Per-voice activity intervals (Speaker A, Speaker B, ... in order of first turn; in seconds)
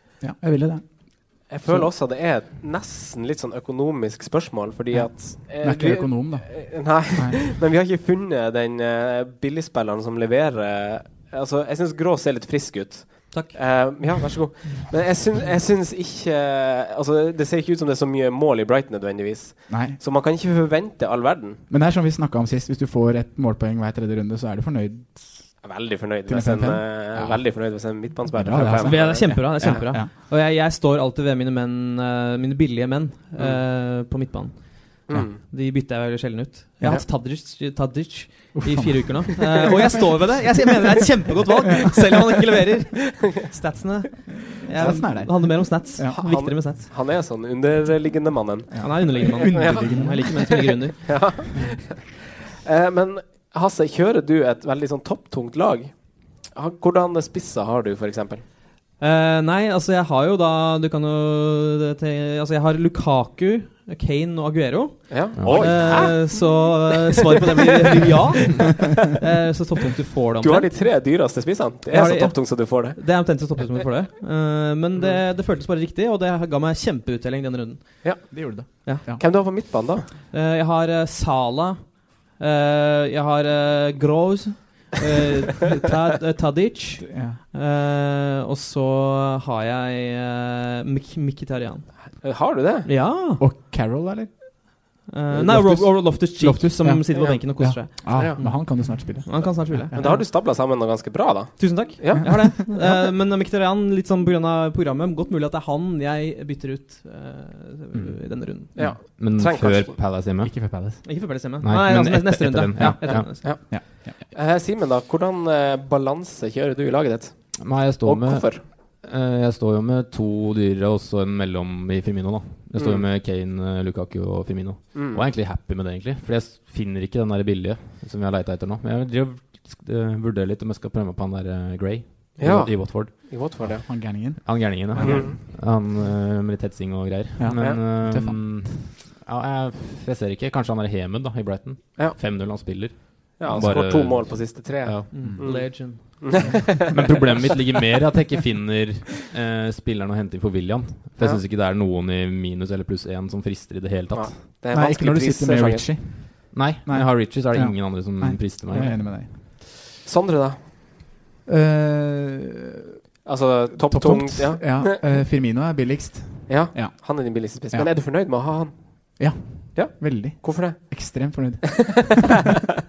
Speaker A: 0.2-1.9, 4.9-7.4, 19.7-20.0, 21.7-25.6, 26.2-30.1, 38.5-39.3, 44.4-46.2, 48.7-50.5, 78.3-79.2, 87.0-87.4, 93.4-94.8, 95.3-100.2, 102.1-102.5, 108.7-109.0, 110.4-111.0, 112.8-114.2, 133.6-135.3, 137.4-138.7, 146.9-147.2, 154.7-159.4, 161.5-162.8, 163.8-168.0, 169.2-172.4
Speaker B: 1.5-21.6, 25.6-29.9, 35.1-35.4, 46.1-55.9, 56.5-58.4, 65.1-68.2, 70.4-73.0, 78.0-80.1, 92.2-92.9, 97.1-98.4, 99.9-102.5, 108.8-110.2, 113.3-118.6, 122.8-123.0, 124.9-125.2, 132.4-133.9, 135.0-135.4, 137.6-137.8, 143.4-147.2, 154.1-156.0, 160.0-160.6, 163.2-165.1, 166.5-172.0
Speaker C: 13.3-13.6, 28.8-46.9, 48.8-51.1, 59.0-70.8, 71.9-79.1, 80.3-92.3, 92.8-93.4, 95.1-100.3, 101.6-108.7, 111.0-113.6, 145.1-146.4
Speaker D: 65.4-66.0, 109.2-111.0, 111.6-113.4, 117.6-133.8, 134.4-145.3, 146.9-154.3, 156.5-159.0